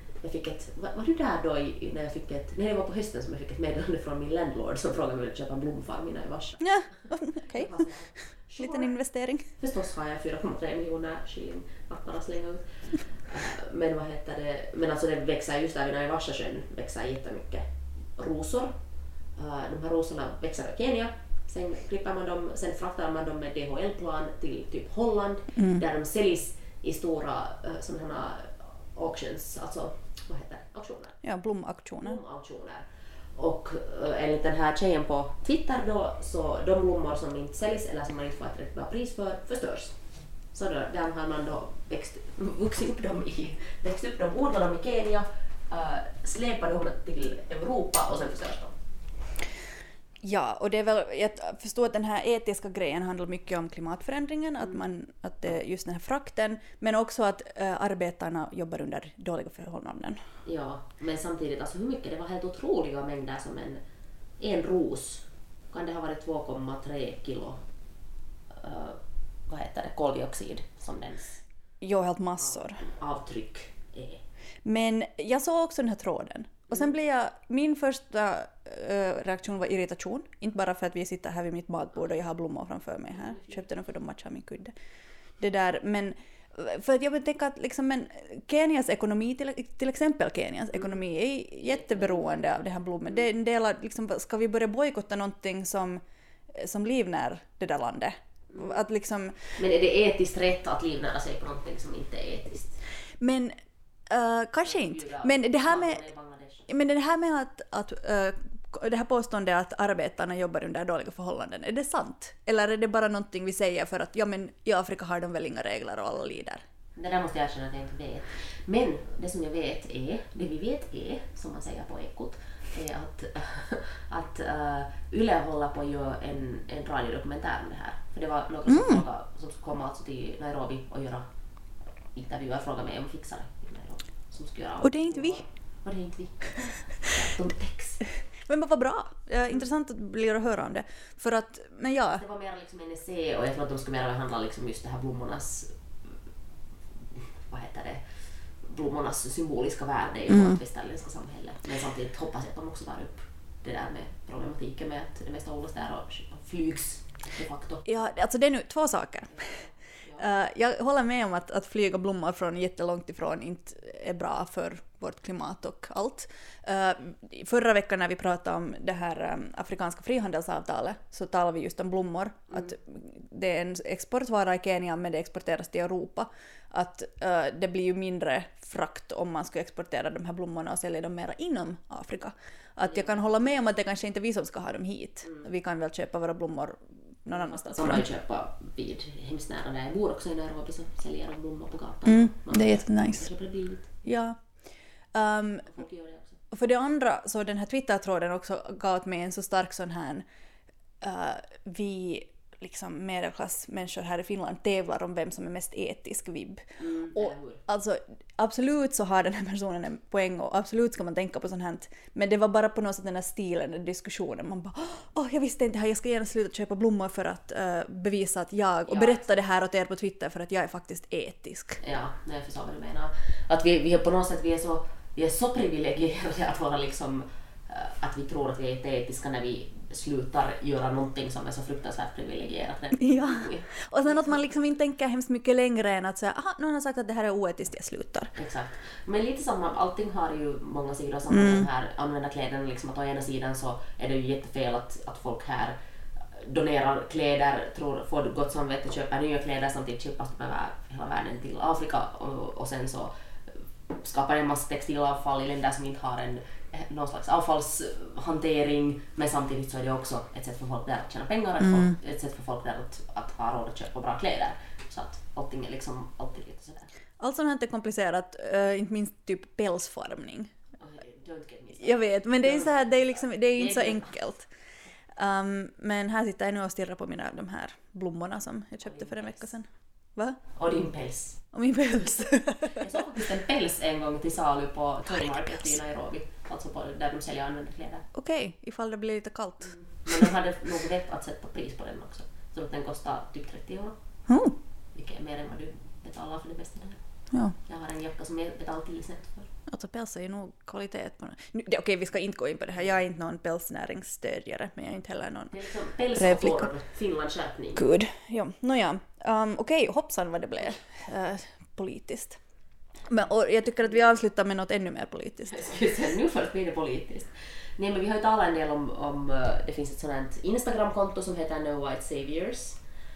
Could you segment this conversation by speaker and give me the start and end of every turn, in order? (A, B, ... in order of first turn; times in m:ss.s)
0:00.2-0:08.9 A
0:06.6-0:07.9 B
0:08.6-0:09.5 B
0:09.6-0:31.2 A
0:25.6-0:25.8 B
0:31.2-0:32.2 B
0:32.0-0:48.8 A
0:50.2-1:00.2 B
1:00.5-1:03.8 A
1:04.4-1:07.6 A
1:08.5-1:11.4 A
1:11.8-1:12.8 B
1:12.4-1:14.2 A
1:14.6-1:24.7 B
1:25.4-1:39.6 B
1:31.7-1:32.6 A
1:39.6-1:42.8 A
1:43.2-1:43.6 B
1:44.1-1:46.0 B
1:44.6-1:46.7 A
1:46.7-1:56.6 B
1:57.0-2:11.3 A
2:08.7-2:09.0 B
2:12.1-2:18.1 A
2:14.8-2:15.4 B
2:18.4-2:22.2 B
2:22.1-2:26.1 A
2:27.2-2:37.9 A
2:30.3-2:30.6 B
2:37.8-3:08.0 B
2:39.3-2:40.2 A
3:02.9-3:03.5 A
3:07.3-3:13.9 A
3:12.1-3:13.3 B
3:14.0-3:14.4 B
3:15.1-3:15.7 B
3:15.7-3:16.4 A
3:16.5-3:20.3 B
3:21.0-3:41.8 B
3:26.8-3:27.6 A
3:38.9-3:39.3 A
3:41.8-3:54.7 A
3:53.0-3:58.3 B
3:58.4-4:05.8 A
4:01.3-4:01.7 B
4:06.3-4:26.9 A
4:21.6-4:22.0 B
4:27.2-4:30.5 B
4:30.8-4:34.1 A
4:31.8-4:34.5 B
4:35.2-4:40.4 B
4:38.8-4:39.5 A
4:40.5-4:41.4 A
4:41.5-4:42.8 B
4:42.8-4:48.1 A
4:48.1-4:50.3 B
4:49.6-4:54.0 A
4:54.3-4:54.6 B
4:54.9-4:59.5 A
4:59.7-5:05.6 B
5:05.5-5:07.8 A
5:06.1-5:06.7 B
5:07.8-5:12.4 B
5:13.1-5:15.7 B
5:15.5-5:22.8 A